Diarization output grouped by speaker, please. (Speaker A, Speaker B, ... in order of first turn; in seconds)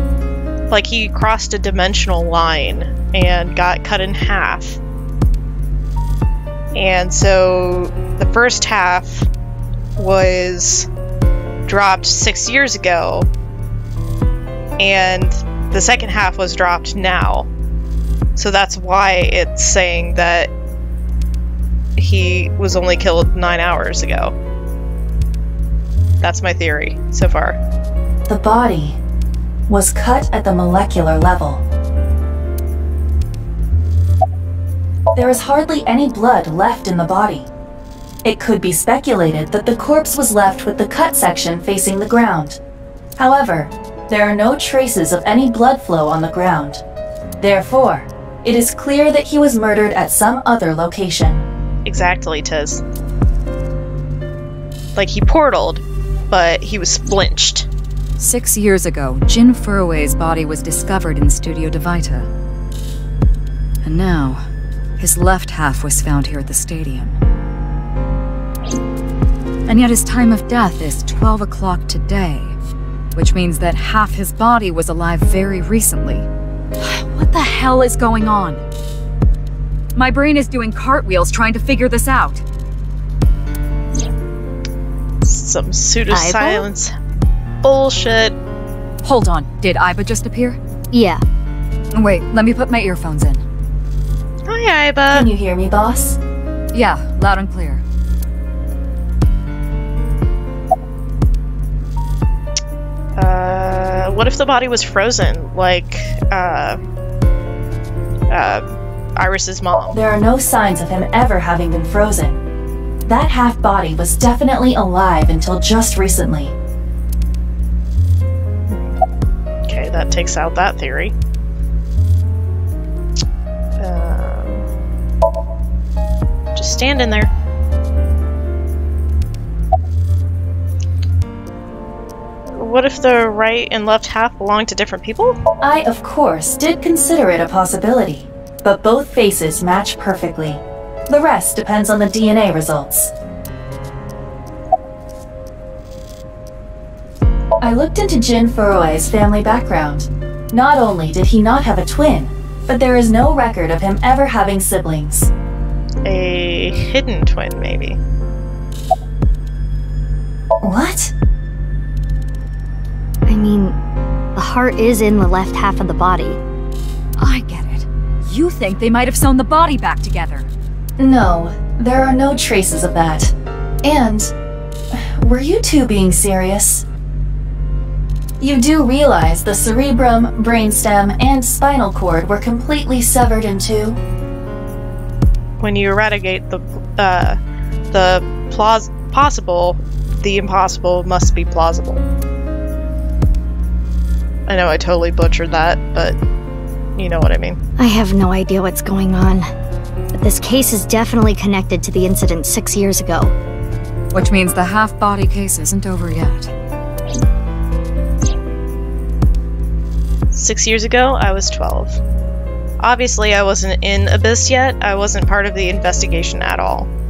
Speaker A: 0.7-4.8, 6.7-9.3, 10.0-10.9, 11.7-13.3, 14.8-17.5, 18.4-20.5, 22.0-24.3, 26.2-27.6, 51.9-52.8, 55.0-57.7, 85.2-86.9, 87.6-88.4, 94.5-95.3, 103.2-106.8, 108.3-108.6, 109.2-110.0, 118.7-119.0, 119.7-121.1, 123.8-124.6, 126.6-127.3, 132.6-135.4, 156.1-158.0, 185.6-187.4, 187.9-192.0, 194.5-196.2, 197.0-197.6, 210.3-212.0, 212.8-216.9
Speaker B: 28.3-29.0, 29.7-31.6, 35.1-37.5, 38.2-42.6, 43.2-46.8, 47.4-51.5, 95.1-96.2, 109.9-112.4, 113.0-116.5, 135.6-143.1, 147.6-155.3, 160.6-161.1, 171.0-174.3, 174.9-176.8, 178.4-184.0
Speaker C: 58.2-62.3, 63.8-64.4, 65.0-67.2, 69.7-72.6, 73.1-76.3, 76.8-78.6, 80.0-82.4, 89.0-90.6, 91.9-93.4, 96.7-97.8, 167.2-170.5, 204.1-206.5
Speaker D: 86.1-86.7, 90.9-91.2, 163.3-163.8, 164.3-166.4, 197.8-199.5, 200.1-203.3